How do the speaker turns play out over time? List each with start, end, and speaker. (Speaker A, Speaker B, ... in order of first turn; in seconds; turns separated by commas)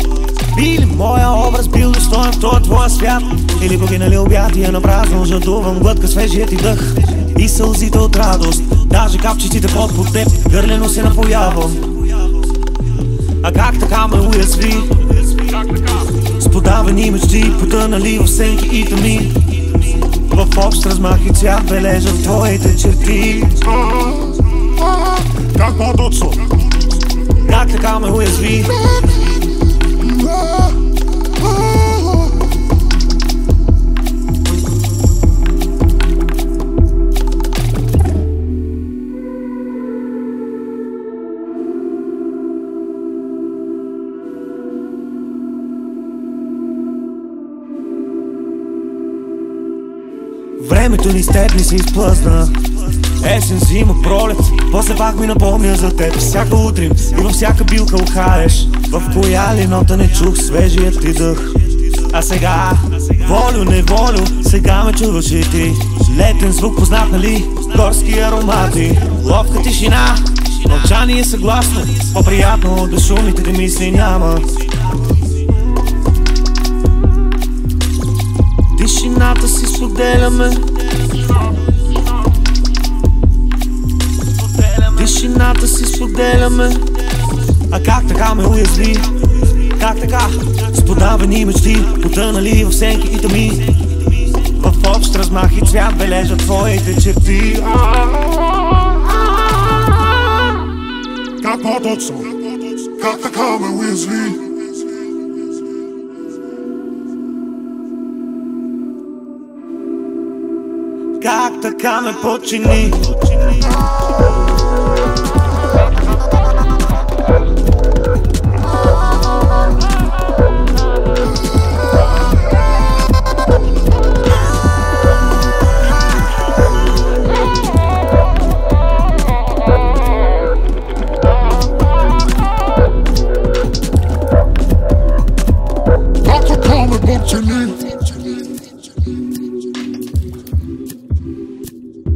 Speaker A: 0.4-12.1, Speaker A: 13.4-23.9, Speaker B: 25.6-26.3, Speaker A: 25.6-26.4, Speaker A: 27.4-28.9, Speaker A: 50.6-74.7, Speaker A: 78.7-81.3, Speaker A: 84.6-98.4, Speaker B: 101.4-102.4, Speaker B: 103.0-104.6, Speaker A: 111.2-113.2, Speaker B: 136.3-137.9